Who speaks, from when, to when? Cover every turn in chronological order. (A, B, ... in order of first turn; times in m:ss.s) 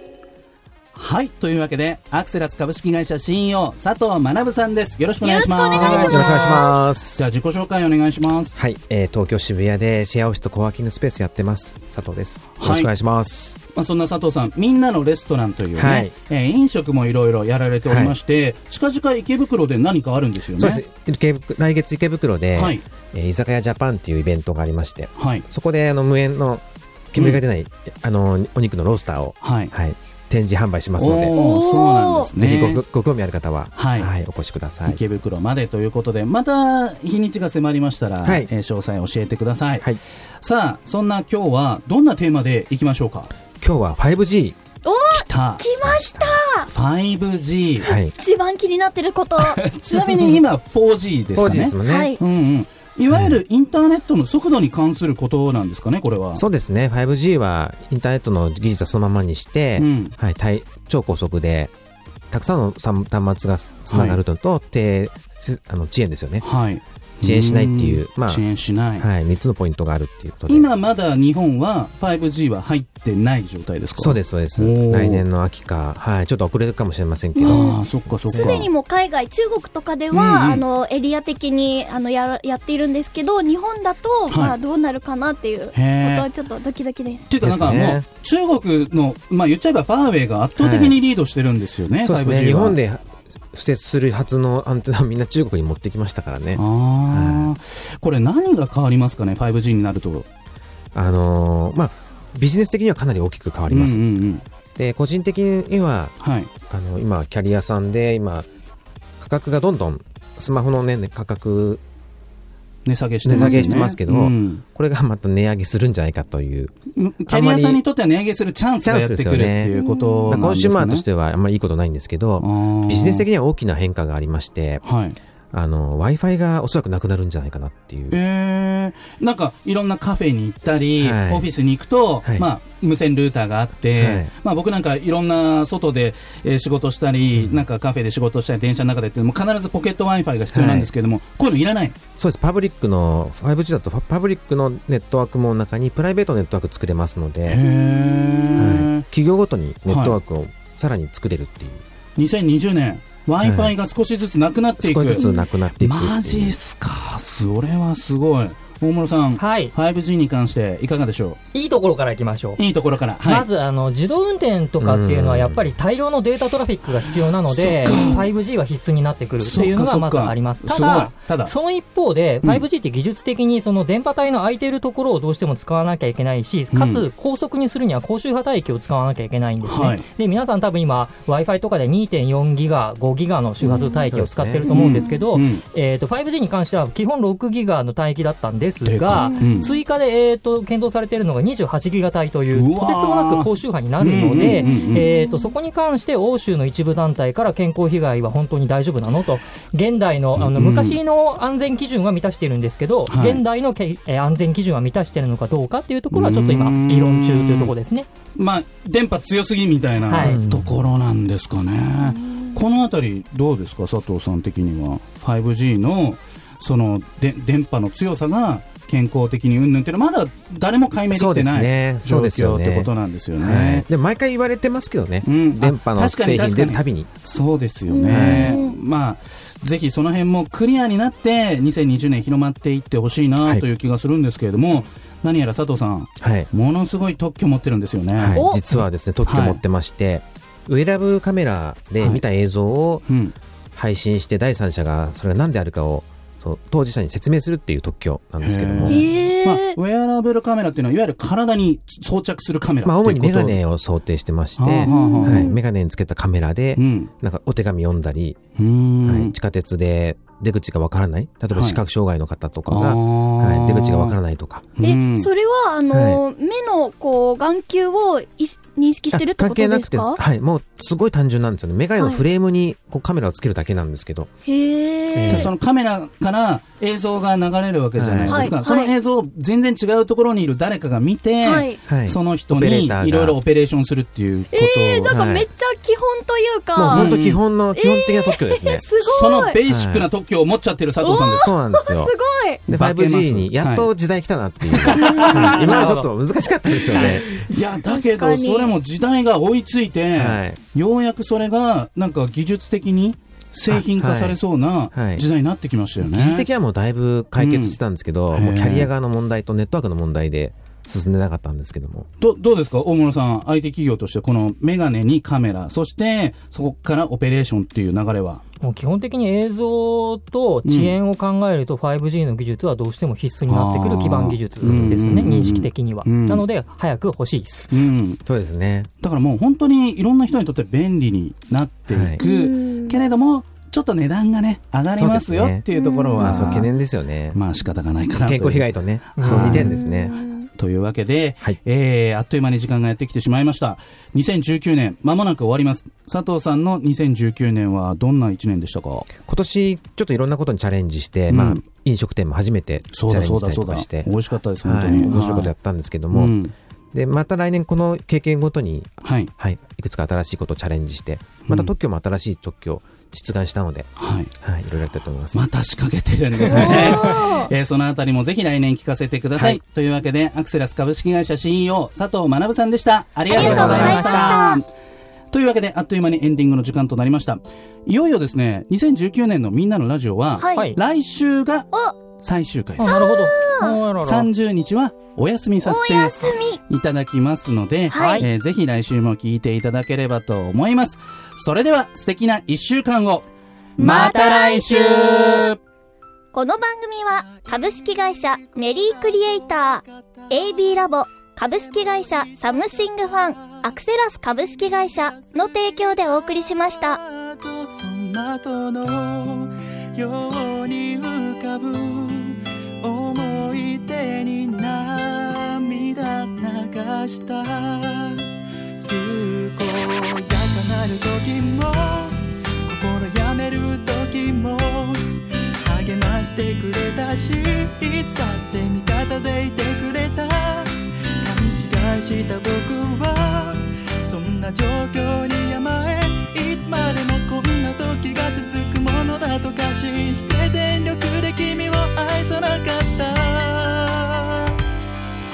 0:01.0-0:06.6 A
0:05.2-0:06.8 B
0:05.8-0:07.3 C
0:07.2-0:08.6 A
0:08.6-0:13.6 C
0:12.6-0:12.9 A
0:13.8-0:20.8 A
0:15.8-0:16.1 C
0:17.8-0:18.2 C
0:20.6-0:31.4 C
0:22.6-0:22.8 A
0:25.2-0:25.4 A
0:27.2-0:27.4 A
0:29.4-0:29.7 A
0:31.0-0:32.8 A
0:31.3-0:32.3 B
0:32.4-0:35.0 C
0:33.8-0:34.1 A
0:34.9-0:39.9 A
0:38.2-0:38.5 C
0:40.4-0:43.3 A
0:43.6-0:44.6 C
0:44.8-0:46.7 B
0:45.1-0:45.7 A
0:45.8-0:46.4 C
0:46.7-0:47.9 A
0:47.8-0:48.1 C
0:48.1-0:49.6 B
0:49.4-0:56.4 A
0:51.4-0:52.1 C
0:51.8-0:52.2 B
0:53.1-0:53.4 C
0:56.4-1:01.7 C
0:59.8-1:00.1 A
1:02.3-1:06.5 C
1:03.9-1:04.2 A
1:06.4-1:09.1 A
1:07.2-1:08.4 C
1:09.0-1:10.7 C
1:10.5-1:15.2 A
1:14.0-1:18.7 C
1:17.4-1:27.3 B
1:17.4-1:18.7 A
1:20.1-1:20.6 A
1:24.3-1:24.6 A
1:25.7-1:26.3 A
1:27.3-1:32.8 A
1:27.4-1:28.0 C
1:30.6-1:31.0 C
1:32.0-1:37.5 C
1:36.6-1:40.3 A
1:40.9-1:44.0 C
1:43.7-1:44.4 A
1:44.8-1:46.1 C
1:46.2-1:46.5 A
1:46.7-1:48.5 C
1:49.2-1:51.8 C
1:52.9-1:54.6 A
1:53.2-1:56.7 C
1:57.0-2:01.0 A
1:57.3-1:57.8 C
1:58.8-1:59.7 C
1:59.7-2:00.4 B
2:00.3-2:04.8 C
2:02.4-2:03.2 A
2:04.8-2:05.2 A
2:05.5-2:08.2 C
2:08.1-2:22.0 A
2:11.0-2:11.5 C
2:14.0-2:14.3 C
2:17.4-2:17.6 C
2:20.5-2:20.9 C
2:22.2-2:27.6 C
2:27.5-2:29.0 A
2:28.6-2:31.8 C
2:29.9-2:30.2 A
2:32.2-2:41.4 A
2:33.4-2:33.7 C
2:34.8-2:36.6 C
2:35.1-2:35.5 B
2:39.4-2:39.7 D
2:41.5-2:42.6 D
2:42.6-2:43.5 A
2:43.2-3:28.1 D
2:44.8-2:45.6 C
2:47.5-2:48.3 A
2:47.9-2:48.2 B
2:49.4-2:51.5 A
2:56.7-2:57.0 A
2:59.6-3:00.0 A
3:03.6-3:04.8 C
3:03.7-3:04.1 B
3:04.7-3:05.6 A
3:04.7-3:05.2 B
3:08.8-3:09.8 A
3:09.1-3:09.8 B
3:12.5-3:15.1 A
3:14.4-3:15.5 B
3:20.4-3:21.0 A
3:23.1-3:23.4 A
3:26.1-3:27.7 A
3:28.4-3:43.9 A
3:30.1-3:30.4 D
3:30.2-3:30.7 C
3:41.1-3:47.1 C
3:45.2-3:58.4 A
3:47.9-3:48.8 B
3:48.1-3:48.6 C
3:56.2-3:56.5 C
3:58.2-4:03.1 C
3:58.4-3:58.6 B
3:59.2-3:59.6 A
4:03.1-4:03.4 A
4:03.8-4:09.0 C
4:08.4-4:13.6 A
4:08.9-4:09.8 B
4:12.8-4:18.4 C
4:14.6-4:15.5 A
4:14.8-4:15.6 B
4:16.8-4:17.1 A
4:18.6-4:19.3 A
4:19.0-4:24.6 C
4:21.5-4:21.8 A
4:22.7-4:24.2 A
4:24.8-4:25.3 A
4:24.8-4:30.2 B
4:25.9-4:26.2 C
4:29.1-4:34.3 C
4:32.0-4:32.2 B
4:34.5-4:35.5 B
4:35.1-4:35.5 C
4:35.3-4:45.1 A
4:38.0-4:38.5 C
4:38.3-4:38.9 B
4:41.4-4:41.8 B
4:41.9-4:43.4 C
4:44.5-4:47.1 B
4:45.1-4:45.5 C
4:46.8-4:48.8 C
4:46.9-4:47.4 A
4:47.7-4:49.6 B
4:49.1-4:51.5 A
4:49.7-4:50.1 C
4:51.0-4:52.6 B
4:51.4-4:52.2 C
4:52.7-4:57.3 C
4:52.7-4:53.9 A
4:54.8-4:55.9 A
4:54.9-4:55.5 B
4:55.3-4:56.1 D
4:56.9-5:06.5 A
4:56.9-4:58.8 B
5:00.1-5:00.6 C
5:03.7-5:04.4 C
5:04.9-5:05.2 C
5:06.0-5:12.1 C
5:07.4-5:07.8 A
5:08.3-5:08.9 A
5:12.2-5:18.4 A
5:18.6-5:27.7 D
5:20.6-5:20.9 A
5:23.5-5:26.4 A
5:27.7-5:28.2 A
5:28.3-5:28.9 C
5:29.0-5:36.7 A
5:31.9-5:32.2 C
5:32.2-5:33.0 B
5:35.0-5:35.6 C
5:35.7-5:36.5 B
5:36.2-5:37.4 C
5:37.3-5:39.7 A
5:38.2-5:40.2 C
5:39.2-5:39.7 D
5:39.6-5:40.5 B
5:40.6-5:49.1 A
5:49.2-5:54.1 C
5:51.3-5:51.6 A
5:52.9-5:55.5 A
5:54.6-5:56.4 C
5:56.1-5:56.5 A
5:56.9-6:05.4 C
5:59.0-5:59.3 A
6:04.0-6:04.3 A
6:05.3-6:14.6 A
6:06.4-6:07.1 C
6:06.5-6:07.5 B
6:13.3-6:14.6 B
6:13.3-6:14.0 C
6:13.4-6:14.4 D
6:15.3-6:23.1 A
6:20.4-6:20.7 B
6:21.7-6:22.0 B
6:22.8-6:24.3 D
6:22.8-6:23.8 B
6:24.0-6:33.3 A
6:25.6-6:26.6 B
6:27.9-6:28.3 B
6:27.9-6:28.3 D
6:33.8-6:35.5 B
6:33.8-6:35.6 A
6:36.3-6:47.0 B
6:37.1-7:05.0 E
7:05.6-7:24.5 E